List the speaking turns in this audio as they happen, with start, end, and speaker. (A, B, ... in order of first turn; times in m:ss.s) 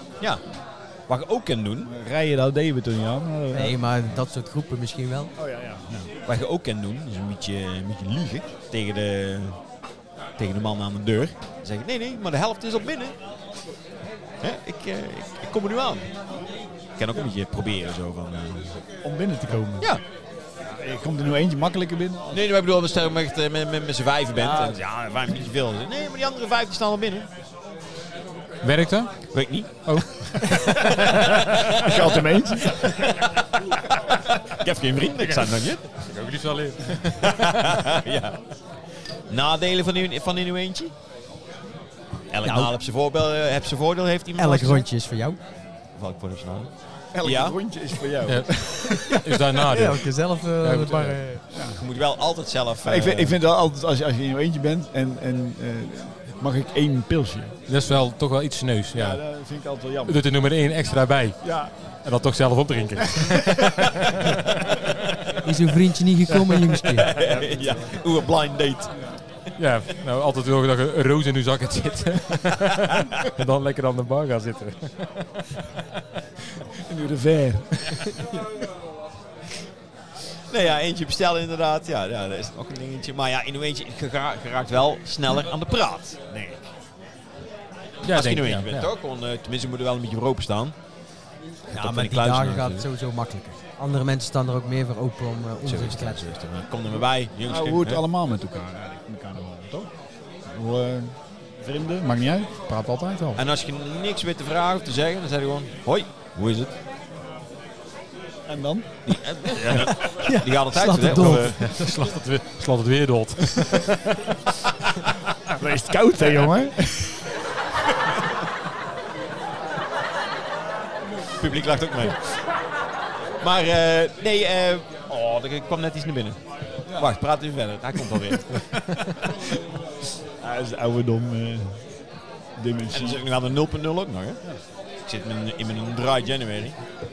0:01.1-0:01.9 A
0:01.8-0:03.8 B
0:03.5-0:05.3 C
0:05.4-0:06.1 B
0:06.2-0:09.6 A
0:10.4-0:13.1 A
0:14.4-0:16.1 A
0:17.0-0:18.8 A
0:19.0-0:19.9 B
0:20.6-0:22.4 B
0:22.3-0:27.3 A
0:28.6-0:29.1 D
0:29.3-0:30.0 A
0:29.8-0:31.3 D
0:30.6-0:35.8 A
0:31.7-0:32.8 B
0:35.2-0:37.7 D
0:37.2-0:38.4 A
0:39.3-0:40.9 A
0:42.3-0:44.8 A
0:42.4-0:42.7 C
0:44.4-0:45.4 C
0:45.9-0:46.7 A
0:47.1-0:49.2 B
0:47.2-0:47.6 A
0:48.3-0:50.1 D
0:49.1-0:51.4 C
0:50.6-0:51.2 D
0:51.5-0:51.8 B
0:51.7-0:53.3 A
0:52.8-0:57.6 B
0:57.7-0:59.2 D
0:58.9-1:00.2 B
1:00.0-1:04.2 D
1:01.4-1:01.7 B
1:03.7-1:04.1 A
1:05.4-1:07.1 C
1:06.9-1:09.0 A
1:07.1-1:08.0 B
1:09.6-1:15.0 D
1:16.8-1:18.1 B
1:20.5-1:26.7 A
1:28.0-1:30.7 A
1:28.0-1:28.9 D
1:31.7-1:32.8 A
1:31.7-1:36.2 C
1:35.6-1:38.0 A
1:37.5-1:39.9 B
1:40.5-1:43.4 B
1:43.3-1:46.8 A
1:48.5-1:49.0 B
1:49.0-1:51.6 A
1:49.7-1:52.0 C
1:51.0-1:54.4 D
1:55.5-1:57.2 B
2:01.4-2:02.3 A
2:03.4-2:06.4 A
2:06.9-2:09.3 A
2:10.4-2:11.8 B
2:12.6-2:13.2 B
2:12.9-2:14.4 A
2:15.0-2:16.8 A